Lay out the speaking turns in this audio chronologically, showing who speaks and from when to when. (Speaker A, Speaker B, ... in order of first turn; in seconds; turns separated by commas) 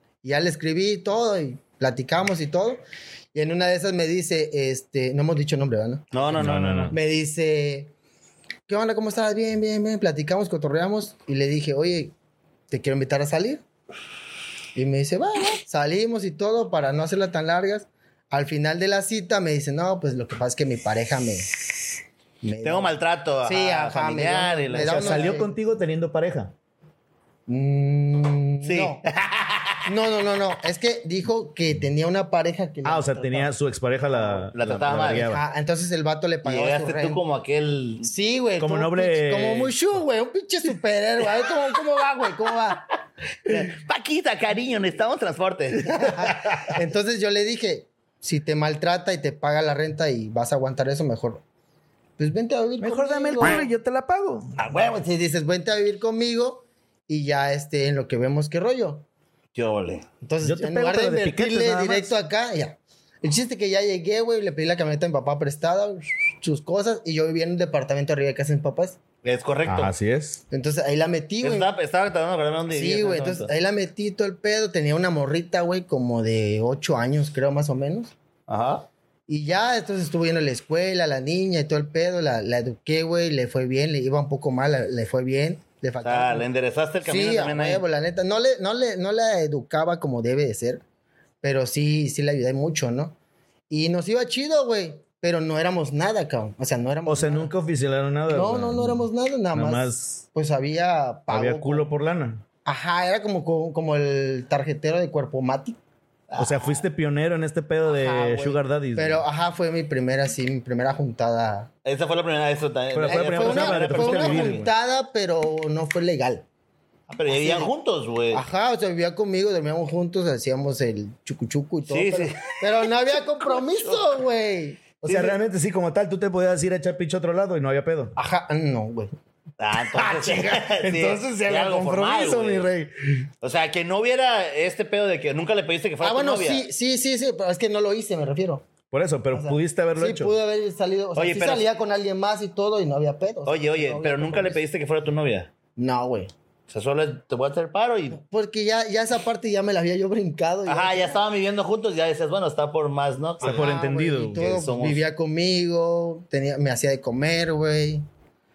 Speaker A: 0.2-2.8, Speaker A: 3.3-7.9, Speaker B: 6.1-7.0, Speaker C: 6.4-7.0, Speaker A: 8.7-12.1, Speaker A: 12.7-13.6, Speaker A: 14.8-21.6, Speaker A: 22.4-25.5, Speaker B: 22.6-25.4, Speaker C: 24.8-26.5, Speaker A: 27.5-29.0, Speaker B: 28.6-29.9, Speaker A: 29.9-33.5, Speaker C: 32.9-35.4, Speaker B: 34.5-35.3, Speaker A: 35.0-37.2, Speaker B: 36.4-38.1, Speaker A: 38.0-42.9, Speaker C: 38.6-39.8, Speaker B: 43.5-46.7, Speaker A: 45.9-51.4, Speaker A: 52.2-53.6, Speaker C: 52.8-54.6, Speaker B: 54.6-55.0, Speaker A: 54.6-59.0, Speaker B: 59.5-60.0, Speaker A: 60.2-69.0, Speaker C: 60.4-62.1, Speaker B: 69.2-69.9, Speaker C: 69.7-70.4, Speaker A: 70.5-71.7, Speaker B: 71.4-73.5, Speaker A: 72.7-78.1, Speaker B: 78.5-78.9, Speaker A: 79.3-86.5, Speaker B: 86.0-87.8, Speaker A: 87.0-90.8, Speaker A: 91.4-93.1, Speaker A: 93.7-97.5, Speaker C: 97.1-100.2, Speaker A: 98.3-101.9, Speaker C: 101.3-102.4, Speaker A: 102.6-105.8, Speaker B: 106.3-106.8, Speaker C: 106.4-109.2, Speaker A: 107.9-111.7, Speaker B: 111.8-114.6, Speaker C: 112.9-114.7, Speaker A: 113.1-116.5, Speaker B: 117.1-118.4, Speaker A: 117.3-117.7, Speaker A: 118.3-125.3, Speaker B: 121.9-122.8, Speaker B: 123.4-124.1, Speaker C: 125.0-128.1, Speaker A: 128.2-129.1, Speaker B: 129.6-132.7, Speaker C: 130.0-133.2, Speaker B: 133.4-136.6, Speaker A: 136.0-138.6, Speaker C: 138.9-140.3, Speaker A: 139.3-144.6, Speaker B: 141.2-141.7, Speaker B: 143.5-145.5, Speaker A: 145.8-146.3, Speaker B: 146.7-148.2, Speaker A: 148.1-151.2, Speaker B: 150.7-153.7, Speaker C: 153.4-154.6, Speaker A: 153.4-158.1, Speaker B: 154.3-155.0